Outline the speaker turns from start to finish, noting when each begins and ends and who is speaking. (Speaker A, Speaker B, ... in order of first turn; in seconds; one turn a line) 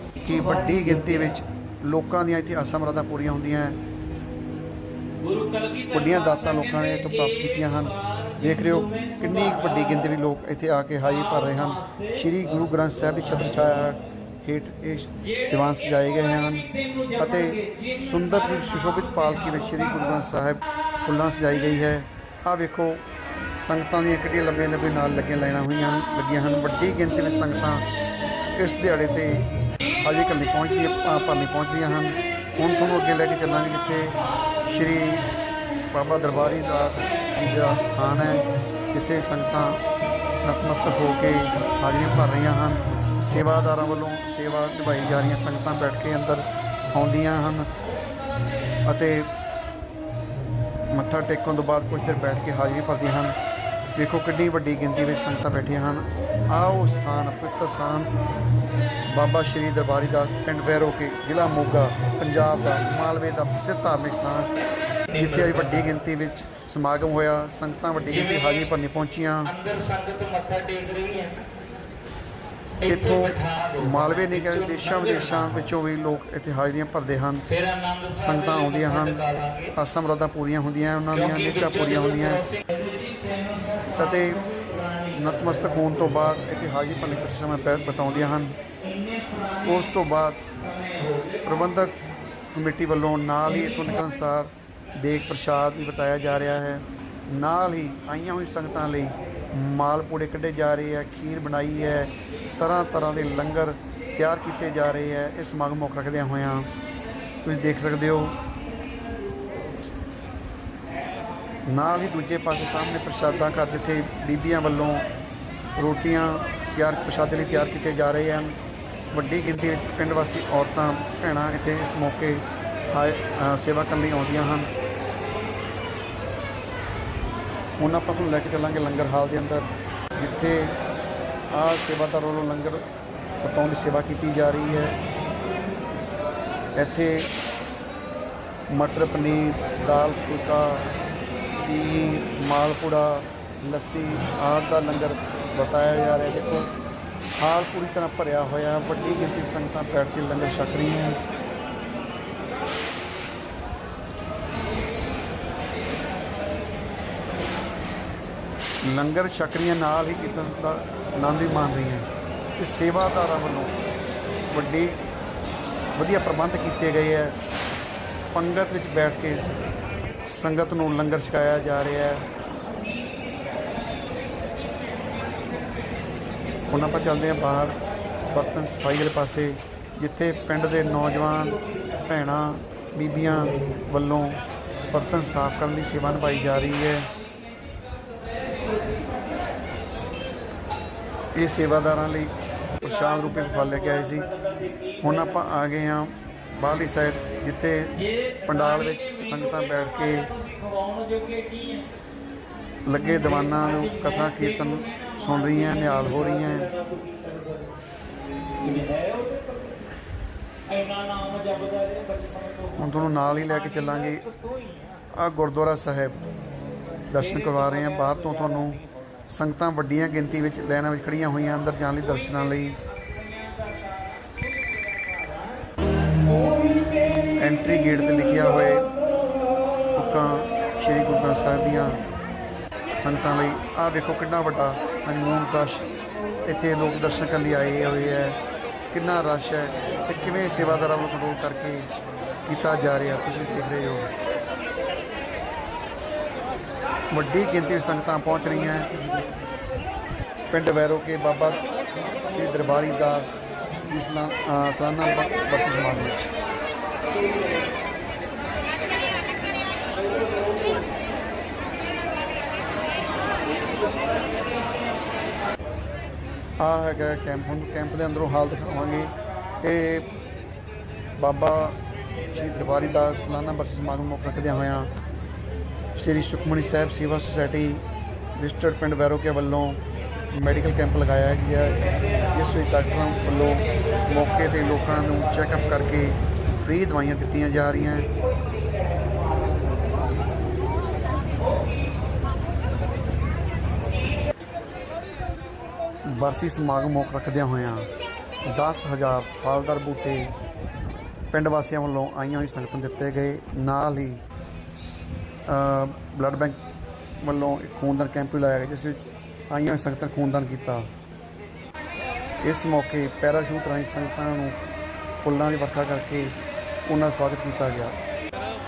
Speaker A: 0.2-3.8
Speaker B: 5.2-10.0
Speaker A: 5.9-16.7
Speaker B: 11.2-12.1
Speaker B: 16.7-18.7
Speaker A: 17.2-23.0
Speaker A: 23.6-27.8
Speaker A: 28.6-29.4
Speaker A: 30.0-34.1
Speaker A: 34.7-35.2
Speaker A: 35.9-39.8
Speaker A: 40.4-47.7
Speaker A: 48.9-49.3
Speaker A: 50.9-53.4
Speaker A: 54.0-58.1
Speaker A: 59.1-64.5
Speaker A: 65.1-69.6
Speaker C: 69.5-71.4
Speaker C: 72.8-74.8
Speaker A: 72.8-77.5
Speaker C: 77.5-79.7
Speaker A: 78.1-82.5
Speaker C: 81.5-81.8
Speaker C: 82.5-83.8
Speaker A: 83.9-84.4
Speaker A: 85.0-88.5
Speaker A: 89.6-90.5
Speaker C: 90.7-91.3
Speaker A: 91.4-92.0
Speaker A: 92.5-106.7
Speaker A: 107.4-108.4
Speaker A: 111.7-115.1
Speaker A: 115.8-118.5
Speaker A: 119.1-124.7
Speaker A: 127.8-130.7
Speaker A: 131.5-132.8
Speaker A: 133.4-135.0
Speaker A: 136.8-137.3
Speaker A: 138.7-140.9
Speaker A: 141.6-146.7
Speaker A: 147.4-151.2
Speaker A: 158.8-162.1
Speaker A: 162.6-163.8
Speaker A: 164.5-164.9
Speaker A: 166.0-167.4
Speaker A: 168.3-169.4
Speaker A: 170.3-172.2
Speaker A: 176.7-177.8
Speaker A: 178.3-184.4
Speaker A: 184.9-187.1
Speaker A: 191.3-194.3
Speaker B: 193.3-195.0
Speaker A: 195.0-197.9
Speaker B: 198.0-201.9
Speaker A: 198.5-200.3
Speaker A: 202.9-206.7
Speaker B: 203.2-207.8
Speaker B: 208.6-209.8
Speaker B: 210.7-215.0
Speaker A: 212.8-214.2
Speaker A: 215.2-216.2
Speaker A: 217.1-222.8
Speaker B: 217.3-218.1
Speaker B: 223.1-225.7
Speaker A: 227.4-228.9
Speaker A: 229.9-232.0
Speaker A: 233.0-235.8
Speaker A: 236.5-238.4
Speaker A: 238.9-241.9
Speaker A: 242.5-244.1
Speaker A: 247.1-248.9
Speaker A: 250.5-251.6
Speaker A: 252.3-253.3
Speaker A: 253.9-256.3
Speaker A: 266.6-270.1
Speaker A: 271.2-271.8
Speaker A: 272.3-274.9
Speaker A: 276.0-277.8
Speaker A: 278.4-279.8
Speaker A: 280.3-281.8
Speaker A: 282.3-288.1
Speaker A: 296.1-297.9
Speaker A: 298.5-300.3
Speaker A: 301.3-304.2
Speaker A: 305.5-306.6
Speaker A: 307.2-309.0
Speaker A: 309.5-310.9
Speaker A: 312.4-314.6
Speaker A: 315.2-316.3
Speaker A: 316.9-317.9